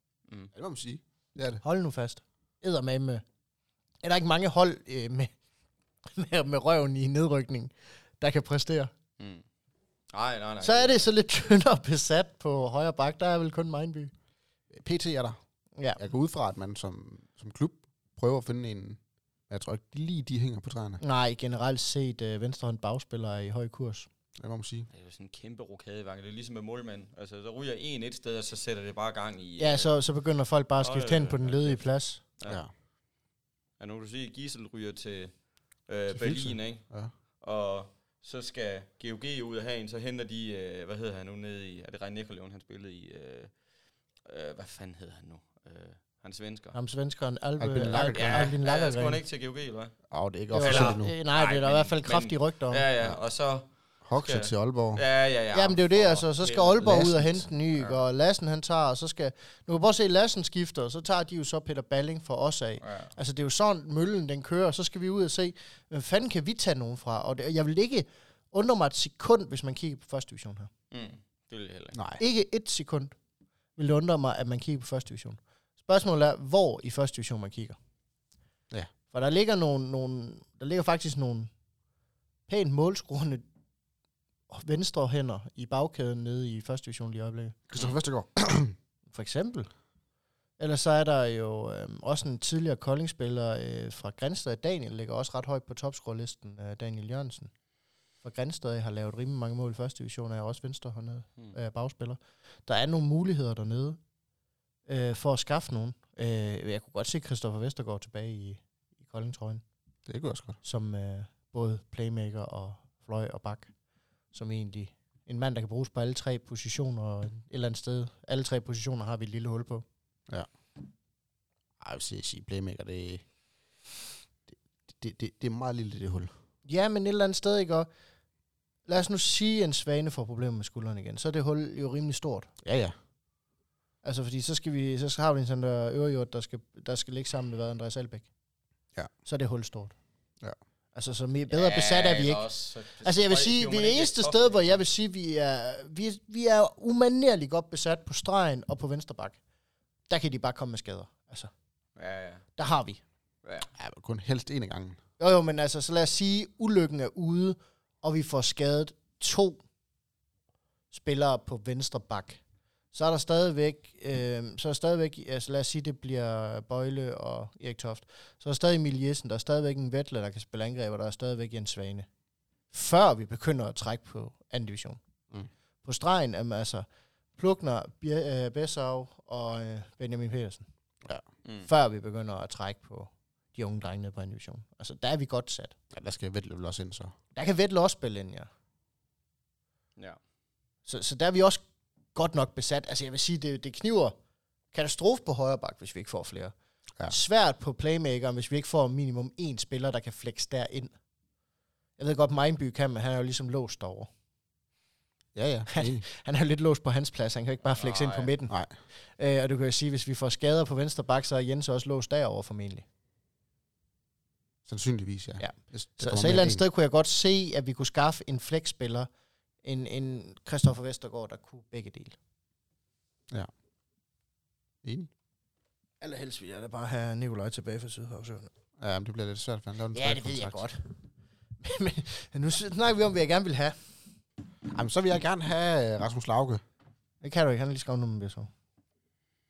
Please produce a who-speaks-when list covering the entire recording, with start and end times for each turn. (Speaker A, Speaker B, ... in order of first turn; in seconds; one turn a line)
Speaker A: 0.5-1.6
Speaker B: 1.6-3.2
Speaker B: 4.0-5.3
Speaker B: 6.1-8.9
Speaker C: 9.2-9.4
Speaker C: 10.1-11.1
Speaker B: 10.6-14.1
Speaker A: 14.7-15.4
Speaker A: 16.0-21.0
Speaker B: 21.0-24.1
Speaker A: 24.4-24.9
Speaker C: 24.9-29.9
Speaker B: 29.6-32.2
Speaker C: 30.8-31.8
Speaker C: 33.8-36.9
Speaker A: 36.1-37.1
Speaker C: 37.4-43.5
Speaker C: 44.2-46.8
Speaker B: 46.7-49.2
Speaker A: 47.6-48.5
Speaker C: 47.9-50.0
Speaker A: 50.1-51.1
Speaker B: 50.5-52.9
Speaker C: 50.6-57.2
Speaker A: 54.0-55.0
Speaker B: 55.5-70.7
Speaker A: 56.8-57.4
Speaker C: 62.8-63.1
Speaker C: 70.9-72.0
Speaker A: 71.9-72.2
Speaker B: 72.2-73.2
Speaker B: 73.8-77.8
Speaker B: 79.1-81.5
Speaker B: 82.5-83.4
Speaker B: 84.5-87.6
Speaker A: 87.7-88.8
Speaker B: 89.1-89.7
Speaker B: 90.6-97.5
Speaker B: 98.2-104.0
Speaker B: 104.9-109.6
Speaker A: 110.1-110.6
Speaker B: 110.6-113.7
Speaker B: 114.3-119.8
Speaker A: 121.8-123.2
Speaker A: 124.9-126.3
Speaker B: 126.7-127.9
Speaker B: 128.9-132.5
Speaker A: 132.6-133.0
Speaker B: 134.0-138.3
Speaker B: 139.2-139.9
Speaker B: 140.9-142.5
Speaker C: 141.5-144.8
Speaker B: 143.0-149.4
Speaker B: 150.1-151.5
Speaker C: 152.0-152.5
Speaker B: 152.6-153.0
Speaker C: 153.4-153.7
Speaker A: 153.8-155.0
Speaker B: 155.2-159.6
Speaker B: 160.9-162.4
Speaker B: 162.9-172.1
Speaker B: 172.7-175.0
Speaker B: 175.8-176.9
Speaker B: 177.4-180.7
Speaker B: 181.7-185.8
Speaker A: 185.9-187.1
Speaker B: 187.3-188.5
Speaker B: 190.9-191.6
Speaker B: 192.1-194.2
Speaker B: 194.7-196.5
Speaker B: 197.1-200.9
Speaker B: 202.0-204.1
Speaker A: 205.3-206.1
Speaker B: 205.7-208.6
Speaker C: 207.8-208.3
Speaker B: 209.2-212.8
Speaker A: 214.7-216.6
Speaker B: 215.4-219.1
Speaker B: 219.6-222.2
Speaker A: 224.8-225.1
Speaker B: 226.0-228.5
Speaker A: 228.8-230.6
Speaker B: 229.9-230.9
Speaker B: 231.6-233.8
Speaker A: 234.7-236.6
Speaker B: 237.2-238.5